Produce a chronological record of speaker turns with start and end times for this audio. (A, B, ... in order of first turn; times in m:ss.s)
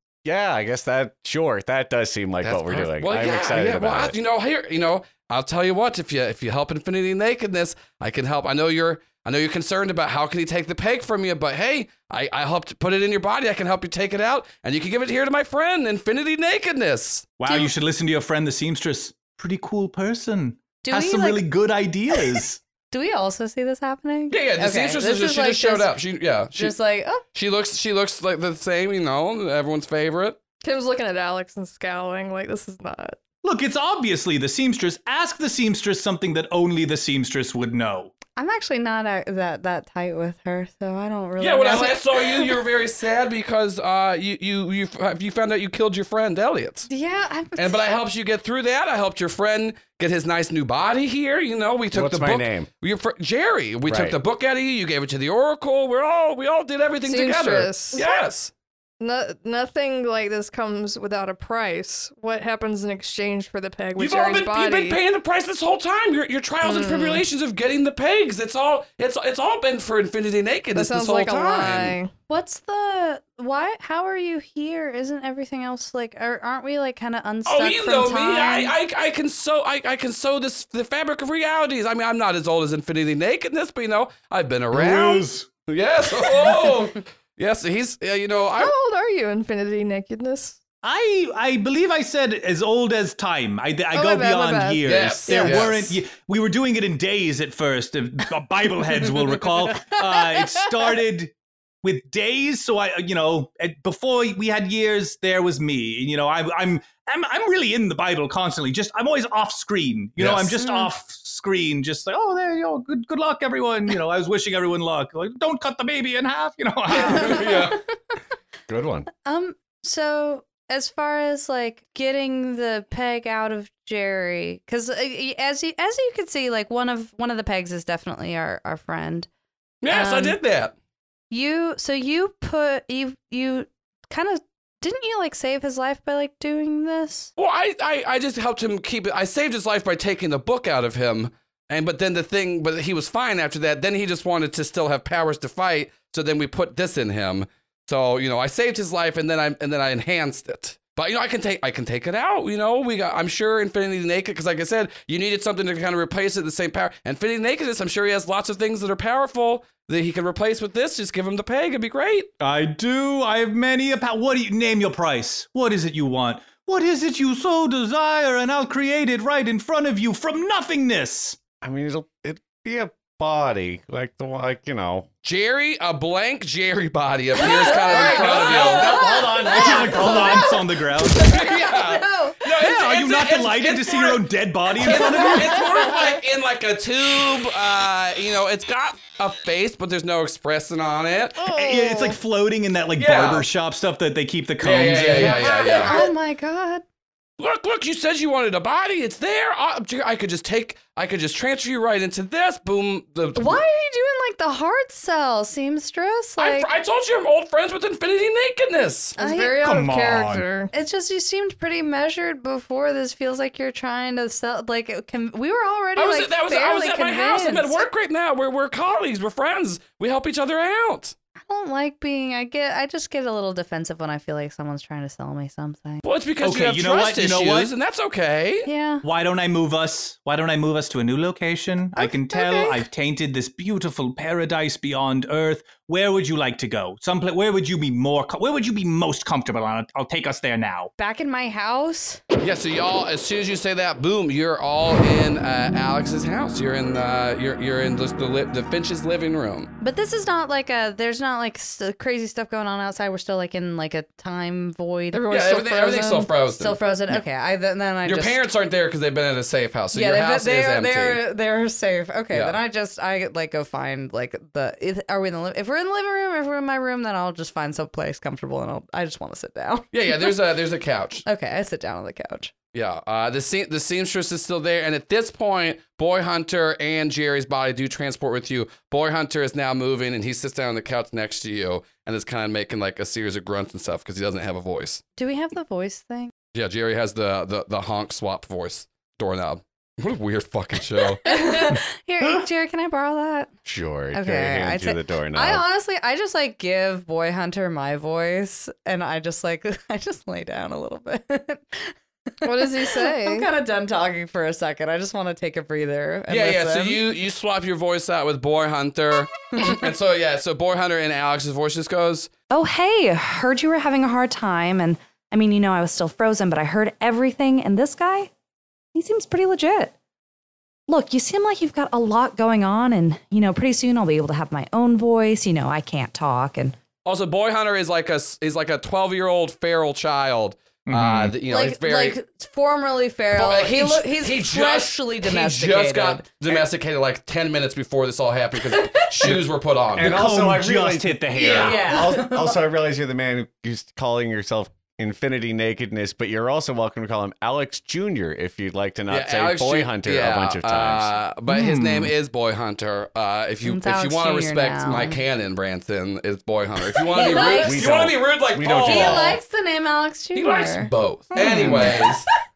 0:00.2-0:04.2 A
0:02.4-0:17.3 B
0:17.4-0:22.6 C
0:17.5-0:17.7 D
0:20.8-0:21.4 D
0:22.9-0:26.0 D
0:24.3-0:26.8 B
0:26.5-0:27.2 D
0:27.3-0:30.4 B
0:30.6-0:33.2 E
0:33.4-0:38.1 C
0:38.4-0:42.6 D
0:41.4-0:46.9 B
0:46.9-0:47.8 D
0:47.6-0:58.5 B
0:51.9-0:52.7 A
0:53.9-0:54.2 A
0:57.0-0:58.2 E
0:59.0-1:05.0 E
1:04.0-1:12.0 B
1:06.6-1:07.2 E
1:10.7-1:12.1 E
1:12.3-1:18.8 D
1:17.5-1:28.7 B
1:24.7-1:25.5 C
1:28.6-1:30.6 E
1:30.8-1:57.7 C
1:33.9-1:35.7 E
1:34.8-1:36.0 B
1:50.2-1:50.6 A
1:56.9-1:57.8 D
1:57.0-1:57.8 B
1:58.7-1:59.1 A
1:59.2-2:09.3 D
2:09.8-2:10.7 B
2:09.9-2:10.4 D
2:11.3-2:17.3 D
2:17.4-2:42.3 B
2:42.4-2:51.4 C
2:51.6-2:55.1 A
2:55.2-2:59.0 B
2:57.4-3:02.4 D
2:57.9-3:00.5 A
2:59.2-3:01.3 C
3:01.2-3:11.5 B
3:02.5-3:05.7 C
3:04.9-3:06.0 D
3:11.4-3:12.2 E
3:11.5-3:15.5 C
3:13.0-3:13.5 B
3:14.6-3:16.1 B
3:15.2-3:16.8 D
3:17.4-3:23.6 B
3:23.4-3:26.7 D
3:26.4-3:29.2 B
3:29.2-3:30.7 E
3:29.2-3:29.6 D
3:29.6-3:30.4 C
3:30.7-3:37.9 D
3:36.0-3:41.2 B
3:41.4-3:46.0 D
3:46.0-3:48.7 B
3:46.4-3:47.7 C
3:48.6-3:49.0 D
3:49.0-4:00.9 C
3:52.0-3:52.9 D
4:01.0-4:02.2 D
4:02.4-4:09.7 B
4:09.8-4:15.3 D
4:15.1-4:16.3 E
4:15.3-4:17.2 B
4:16.6-4:18.4 D
4:18.0-4:21.2 B
4:19.9-4:30.4 D
4:22.3-4:22.6 B
4:29.9-4:31.2 B
4:31.3-4:32.5 D
4:32.7-4:45.0 B
4:45.2-4:46.3 D
4:46.5-4:51.6 B
4:51.2-4:53.5 D
4:53.7-4:55.6 A
4:54.1-5:07.0 D
5:02.4-5:03.5 E
5:06.3-5:12.3 B
5:12.5-5:18.3 D
5:18.9-5:19.9 D
5:20.9-5:26.8 D
5:27.0-5:32.2 B
5:30.9-5:31.4 C
5:31.5-5:36.6 D
5:33.3-5:40.2 B
5:38.7-5:39.3 D
5:40.0-5:41.9 C
5:40.0-5:51.1 A
5:41.4-5:42.6 D
5:49.1-5:59.4 B
5:51.5-5:52.1 C
5:53.6-5:55.2 D
5:57.0-5:57.9 D
5:57.4-5:59.4 A
5:58.7-6:02.1 D
6:00.4-6:02.3 B
6:01.4-6:01.9 C
6:01.4-6:02.0 A